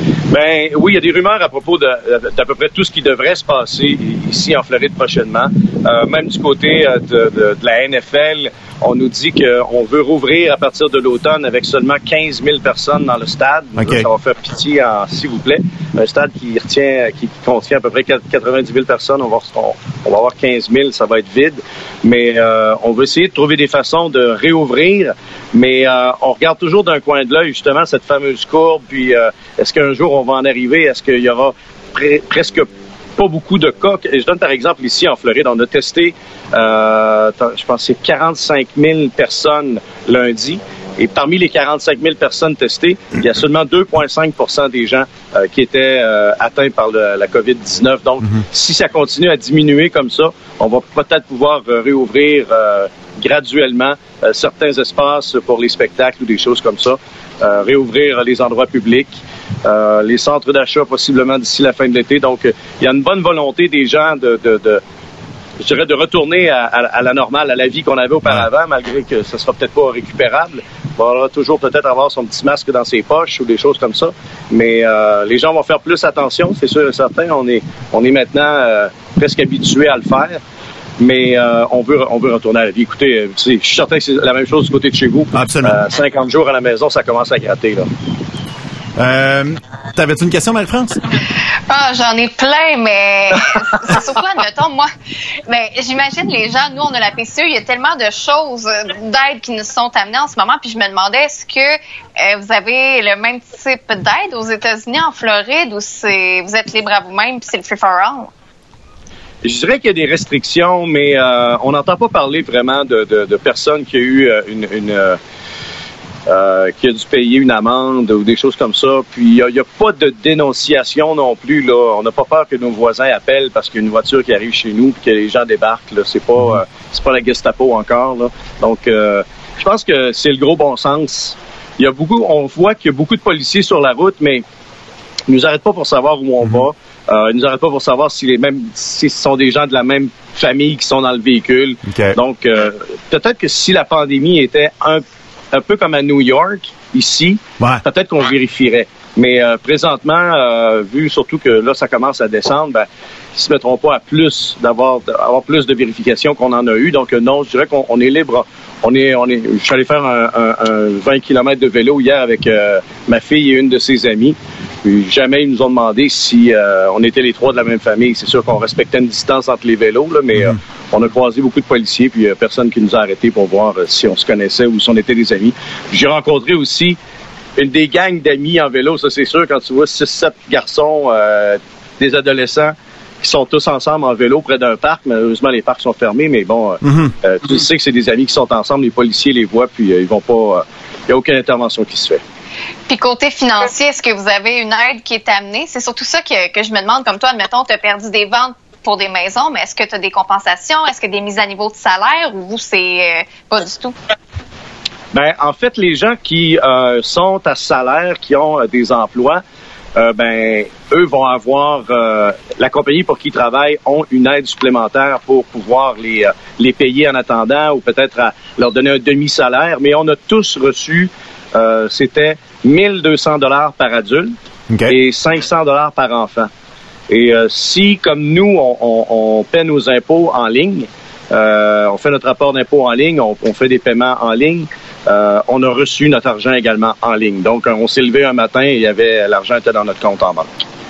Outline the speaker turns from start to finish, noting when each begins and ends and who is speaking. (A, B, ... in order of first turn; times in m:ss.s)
0:00.3-1:04.8 A
0:13.8-0:14.1 B
1:05.6-1:20.4 A
1:21.0-1:27.9 A
1:25.3-1:25.8 B
1:29.0-1:31.0 B
1:31.7-1:34.9 C
1:35.5-1:48.3 C
1:49.4-1:55.2 A
1:56.3-2:14.4 A
2:15.3-2:57.0 A
2:21.9-2:22.2 B
2:57.6-3:12.2 A
3:06.8-3:07.1 B
3:12.9-3:23.9 C
3:25.1-3:29.4 A
3:29.9-3:44.3 A
3:44.7-3:45.0 B
3:44.9-3:46.5 A
3:47.1-4:00.5 A